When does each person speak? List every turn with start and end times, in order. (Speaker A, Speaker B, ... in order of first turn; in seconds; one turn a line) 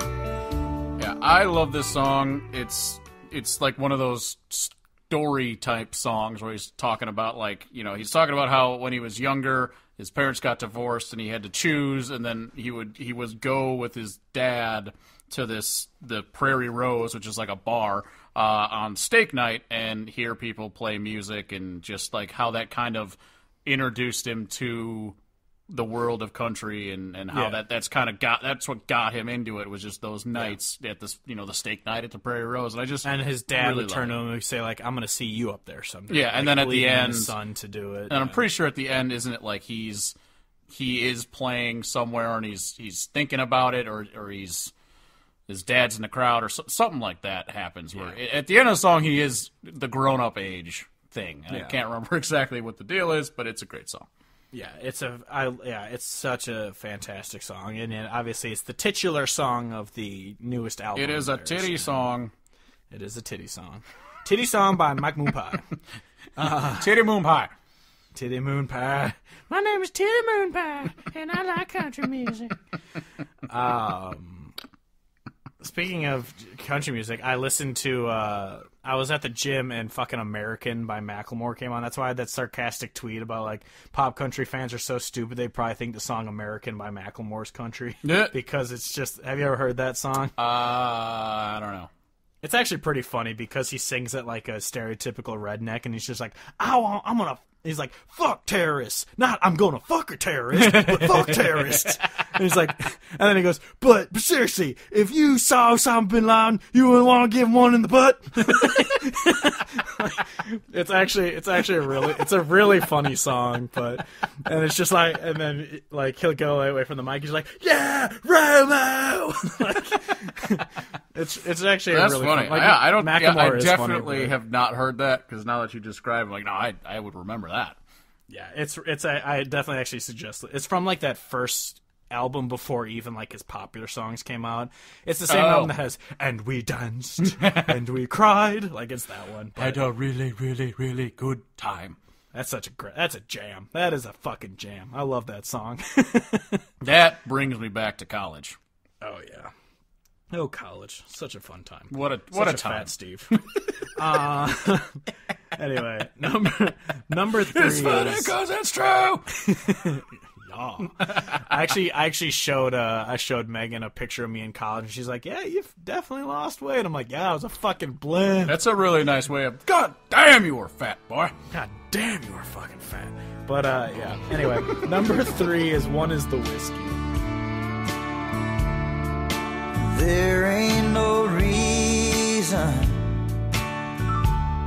Speaker A: 1.0-25.2
Speaker A: 25.7-34.2
Speaker B: 27.3-27.6
Speaker B: 33.0-38.4
Speaker A: 36.1-37.3
Speaker A: 38.1-40.1
Speaker A: 40.7-44.7
Speaker A: 45.5-54.1
Speaker B: 51.5-51.8
Speaker B: 54.5-62.0
Speaker A: 61.0-62.3
Speaker B: 62.9-65.6
Speaker B: 66.4-66.9
Speaker A: 66.6-67.5
Speaker B: 68.1-72.5
Speaker B: 73.5-74.5
Speaker B: 75.6-90.3
Speaker A: 88.0-88.3
Speaker A: 90.4-91.9
Speaker B: 92.4-124.3
Speaker A: 100.5-101.9
Speaker A: 121.9-127.8
Speaker B: 128.3-139.9
Speaker A: 135.3-135.7
Speaker A: 137.2-137.7
Speaker A: 139.6-142.0
Speaker B: 142.3-146.6
Speaker A: 146.8-148.6
Speaker B: 149.0-149.5
Speaker B: 150.3-153.4
Speaker A: 151.9-153.7
Speaker B: 153.9-155.0
Speaker B: 155.6-158.3
Speaker A: 157.2-159.2
Speaker B: 159.3-168.6
Speaker A: 161.0-161.4
Speaker A: 168.4-171.3
Speaker B: 171.5-177.0
Speaker C: 179.7-183.2